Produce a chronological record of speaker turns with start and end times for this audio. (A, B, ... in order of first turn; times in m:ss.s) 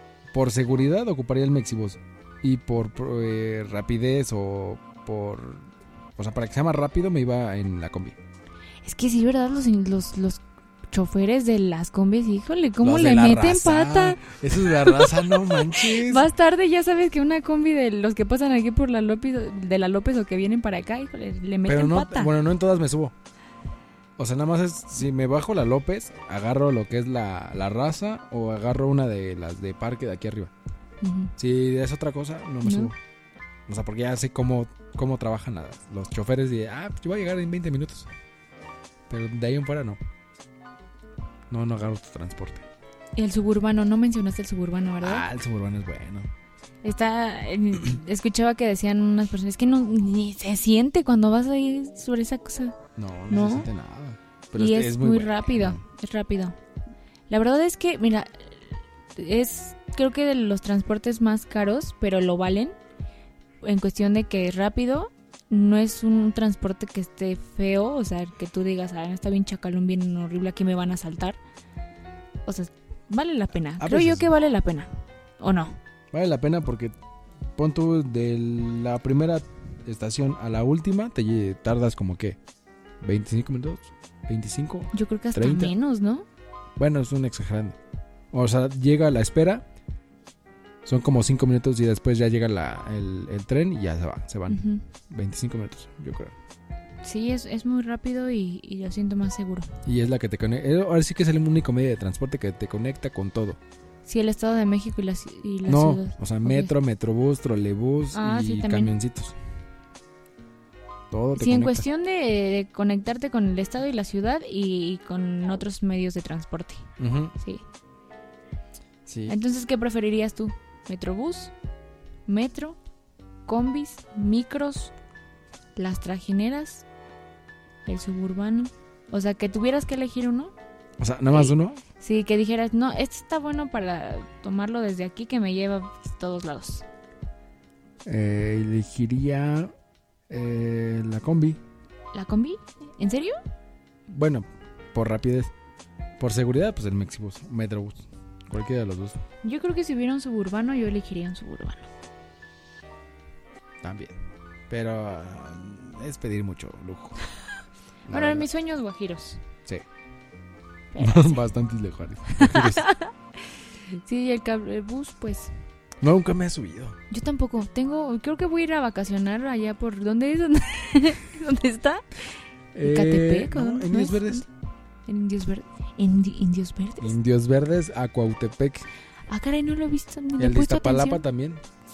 0:00.3-0:08.2 A
0:08.8-0:22.3 B
0:12.8-0:16.3 A
0:21.6-0:23.1 A
0:24.2-0:30.5 A
0:31.0-0:31.3 B
0:31.4-0:33.0 A
0:32.6-0:32.9 B
0:33.7-0:38.1 A
0:39.1-0:40.0 A
0:41.5-0:42.6 A
0:43.2-0:45.2 B
0:45.0-0:46.3 A
0:46.8-0:52.8 B
0:53.0-0:55.8 A
0:53.3-0:53.7 B
0:54.5-0:56.6 B
0:57.3-1:02.8 B
1:03.6-1:11.4 B
1:12.4-1:15.8 B
1:13.8-1:14.3 A
1:16.1-1:16.9 A
1:17.6-1:22.4 A
1:23.0-1:25.7 A
1:24.9-1:26.2 B
1:26.8-1:27.8 A
1:28.3-1:29.6 A
1:30.8-1:36.3 A
1:34.5-1:34.8 B
1:37.0-1:39.7 B
1:39.8-1:43.6 A
1:44.0-1:46.7 B
1:45.7-1:49.4 A
1:48.1-1:48.9 B
1:51.1-1:51.8 A
1:51.3-1:57.6 B
1:57.0-1:57.3 A
1:59.0-1:59.4 A
1:59.3-2:01.5 B
2:02.3-2:02.8 B
2:03.4-2:04.9 B
2:05.7-2:06.8 B
2:07.8-2:10.5 B
2:11.0-2:11.8 A
2:11.3-2:16.8 B
2:18.0-2:19.7 A
2:20.3-2:21.6 A
2:22.1-2:23.4 B
2:24.1-2:25.5 A
2:26.2-2:29.2 A
2:29.4-2:31.9 B
2:33.8-2:34.2 A
2:34.7-2:37.2 A
2:38.1-2:38.5 A
2:38.1-2:39.4 B
2:40.9-2:41.4 B
2:41.0-2:42.9 A
2:42.4-2:43.1 B
2:43.9-2:45.5 B
2:46.0-2:47.0 A
2:47.1-2:54.4 B
2:52.7-2:54.5 A
2:55.0-2:57.2 B
2:57.0-2:58.9 A
2:59.3-3:01.2 B
3:00.4-3:01.6 A